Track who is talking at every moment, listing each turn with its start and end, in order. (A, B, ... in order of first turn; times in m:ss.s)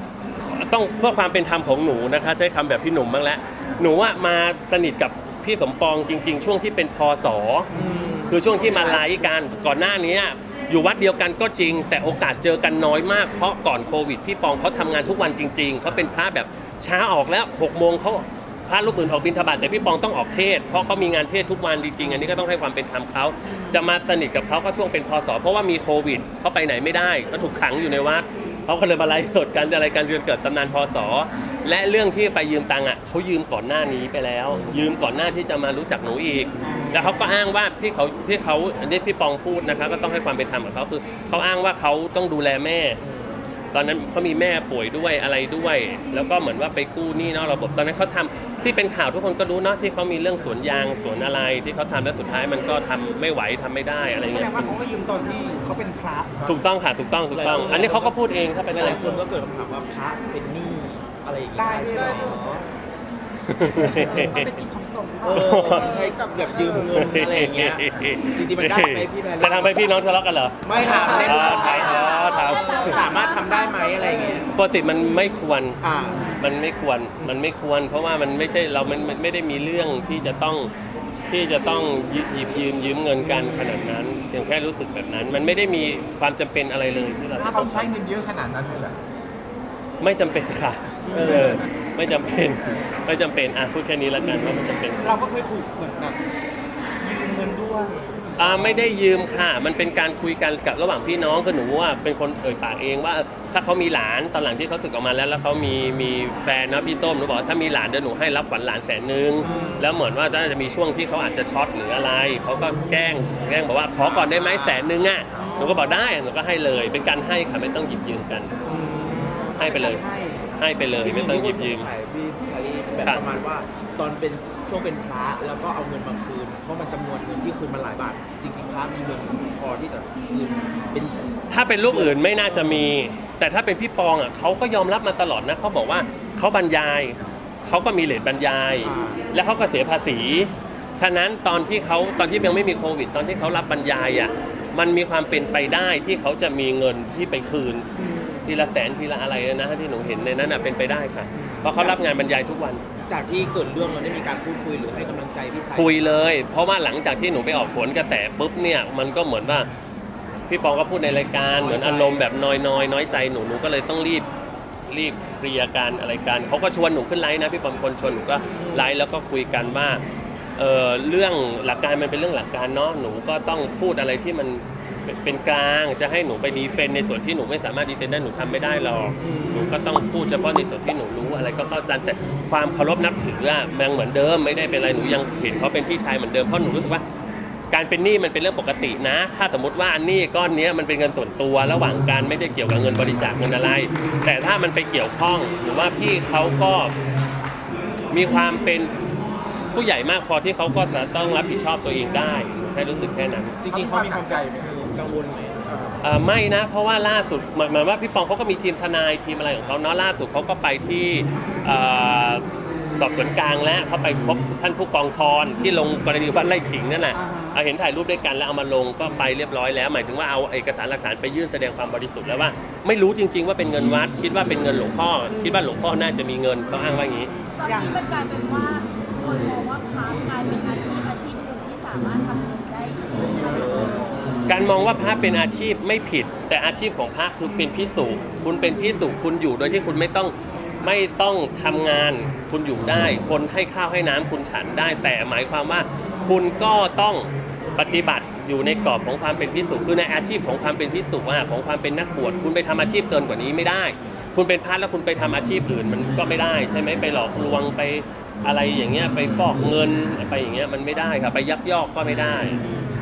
0:00.4-0:07.7 A
0:07.7-0:09.2 B
0:08.3-0:43.0 A
0:36.6-0:37.1 C
0:43.0-0:43.4 B
0:43.7-0:54.8 A
0:54.2-0:56.5 C
0:56.4-0:59.2 A
0:57.3-0:58.2 B
0:58.7-1:02.6 B
1:01.6-1:02.7 C
1:03.5-1:04.6 A
1:03.8-1:04.4 B
1:04.2-1:05.4 C
1:04.2-1:05.2 D
1:05.2-1:09.9 B
1:05.3-1:05.9 A
1:06.9-1:13.1 A
1:10.6-1:14.5 B
1:11.4-1:14.4 D
1:14.5-1:15.8 A
1:15.8-1:16.4 B
1:16.4-1:20.7 A
1:21.3-1:27.9 A
1:23.2-1:23.7 B
1:27.3-1:29.0 E
1:30.0-1:35.0 A
1:31.1-1:31.6 E
1:31.1-1:31.6 B
1:35.0-1:36.2 C
1:37.0-1:38.8 C
1:38.4-1:58.5 A
1:49.4-1:49.9 B
1:54.2-1:54.5 E
1:58.6-1:59.6 B
1:59.2-2:00.5 C
1:59.6-2:00.0 A
2:00.6-2:01.9 A
2:01.0-2:11.2 B
2:11.5-2:27.9 A
2:11.9-2:12.8 B
2:18.8-2:19.2 B
2:28.0-2:28.5 B
2:28.4-2:32.8 A
2:31.4-2:32.0 B
2:33.1-2:36.0 B
2:35.7-2:39.7 A
2:40.5-2:44.2 A
2:41.6-2:42.3 B
2:44.9-2:50.0 A
2:48.6-2:48.9 B
2:50.6-3:07.0 A
2:59.2-2:59.7 B
3:07.7-3:16.9 A
3:18.1-3:18.9 A
3:19.7-3:23.6 A
3:23.6-3:25.8 B
3:23.6-3:24.8 E
3:26.0-3:47.3 A
3:37.1-3:37.6 C
3:47.6-3:54.1 D
3:47.6-3:48.0 C
3:53.2-3:54.3 B
3:54.5-4:22.6 A